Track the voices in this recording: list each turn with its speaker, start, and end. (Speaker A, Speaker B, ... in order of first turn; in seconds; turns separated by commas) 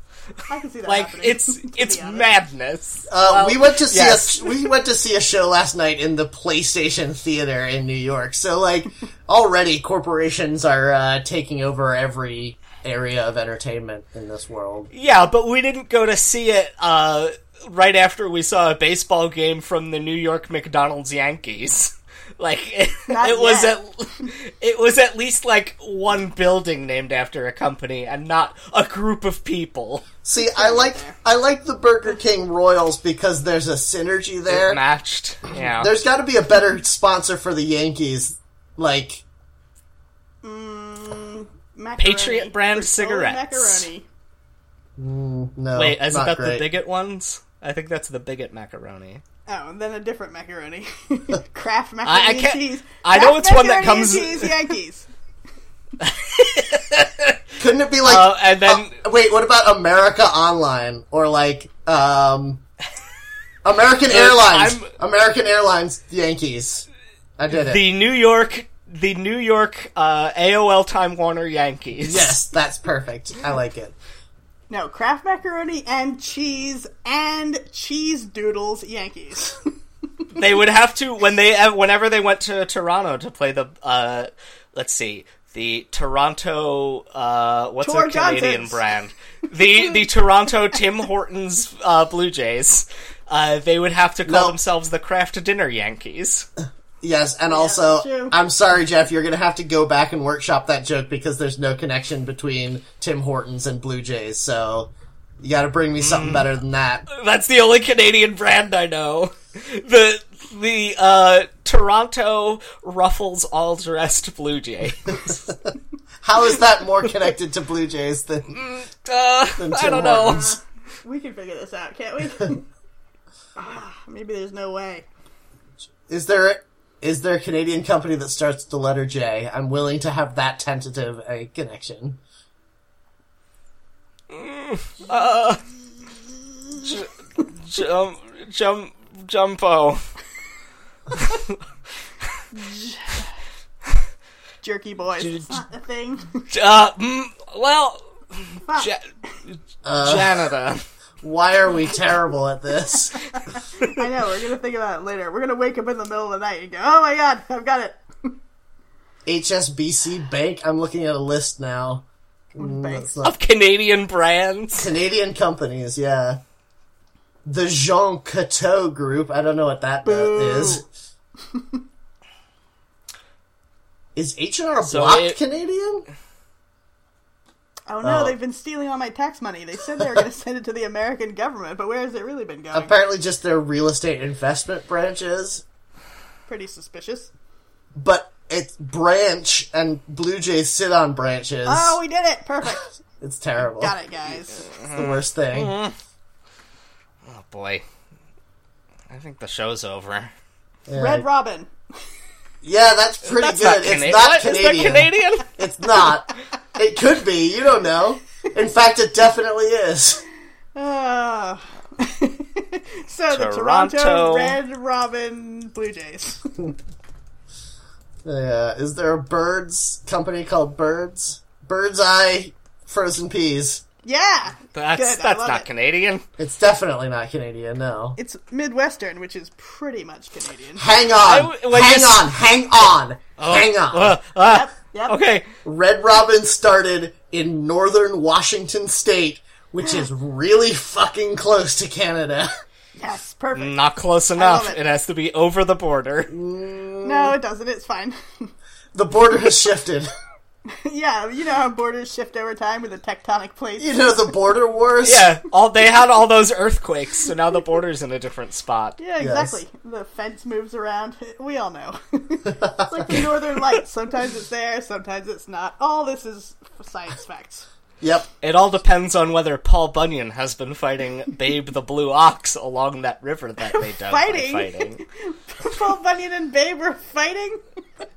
Speaker A: 0.5-2.2, Speaker B: 0.8-4.7, Speaker C: 3.1-14.9, Speaker B: 14.9-30.1, Speaker A: 23.1-23.7, Speaker C: 30.2-34.8, Speaker A: 30.4-31.1, Speaker B: 34.5-35.9, Speaker C: 35.8-39.2, Speaker A: 40.4-44.0, Speaker B: 42.0-43.9, Speaker C: 45.0-46.6, Speaker B: 45.7-49.2, Speaker A: 49.5-55.1, Speaker B: 52.0-54.7, Speaker B: 56.0-57.4, Speaker C: 57.6-62.6, Speaker B: 58.0-59.0, Speaker C: 63.6-66.8, Speaker B: 64.1-64.9, Speaker C: 67.4-67.8, Speaker B: 67.5-72.4, Speaker C: 72.0-73.9, Speaker A: 74.7-79.6, Speaker B: 80.3-96.5, Speaker A: 87.8-88.8, Speaker C: 94.2-94.5, Speaker C: 97.0-107.0, Speaker A: 97.5-98.3, Speaker B: 106.0-106.5, Speaker B: 107.1-115.4, Speaker C: 115.2-115.6, Speaker C: 116.2-118.5, Speaker B: 118.5-120.5, Speaker C: 119.5-120.6, Speaker A: 121.0-122.6, Speaker A: 123.6-125.1, Speaker C: 126.1-132.2, Speaker B: 134.3-135.6, Speaker B: 136.7-140.0, Speaker A: 142.5-143.3, Speaker A: 144.6-146.4, Speaker B: 145.2-145.6, Speaker B: 146.5-150.8, Speaker C: 149.8-150.5, Speaker C: 151.2-153.2, Speaker A: 153.8-158.3, Speaker C: 159.2-163.4, Speaker A: 162.6-163.2, Speaker B: 163.2-164.9, Speaker C: 164.7-166.4, Speaker C: 167.4-170.8, Speaker A: 170.0-170.8, Speaker A: 171.5-171.8, Speaker C: 174.1-176.1, Speaker B: 174.8-175.4, Speaker A: 177.9-182.9, Speaker C: 178.0-178.3, Speaker C: 182.7-185.6, Speaker A: 186.5-187.3, Speaker C: 187.9-192.0, Speaker A: 191.7-193.0, Speaker C: 193.2-193.9, Speaker A: 193.6-194.7, Speaker B: 194.6-195.9, Speaker C: 194.9-195.7, Speaker B: 197.2-197.8, Speaker B: 199.1-200.3, Speaker C: 200.9-201.2, Speaker A: 200.9-201.7, Speaker C: 202.6-210.2, Speaker B: 203.3-205.5, Speaker A: 210.7-216.7, Speaker B: 213.3-214.6, Speaker C: 218.2-223.8, Speaker A: 224.0-225.7, Speaker B: 224.7-226.2, Speaker C: 226.4-228.2, Speaker A: 228.2-230.9, Speaker C: 230.8-234.2, Speaker B: 231.2-232.4, Speaker B: 233.4-235.5, Speaker A: 234.5-235.2, Speaker C: 235.6-242.5, Speaker A: 243.0-243.8, Speaker B: 243.5-246.3, Speaker A: 244.3-244.8, Speaker C: 246.3-247.4, Speaker A: 247.0-248.5, Speaker C: 248.9-250.1, Speaker A: 250.7-254.2, Speaker C: 253.8-255.3, Speaker B: 255.0-259.0, Speaker A: 259.0-267.6, Speaker C: 259.2-259.6, Speaker C: 262.6-263.3, Speaker C: 268.0-268.3, Speaker B: 268.4-275.0, Speaker A: 273.7-277.6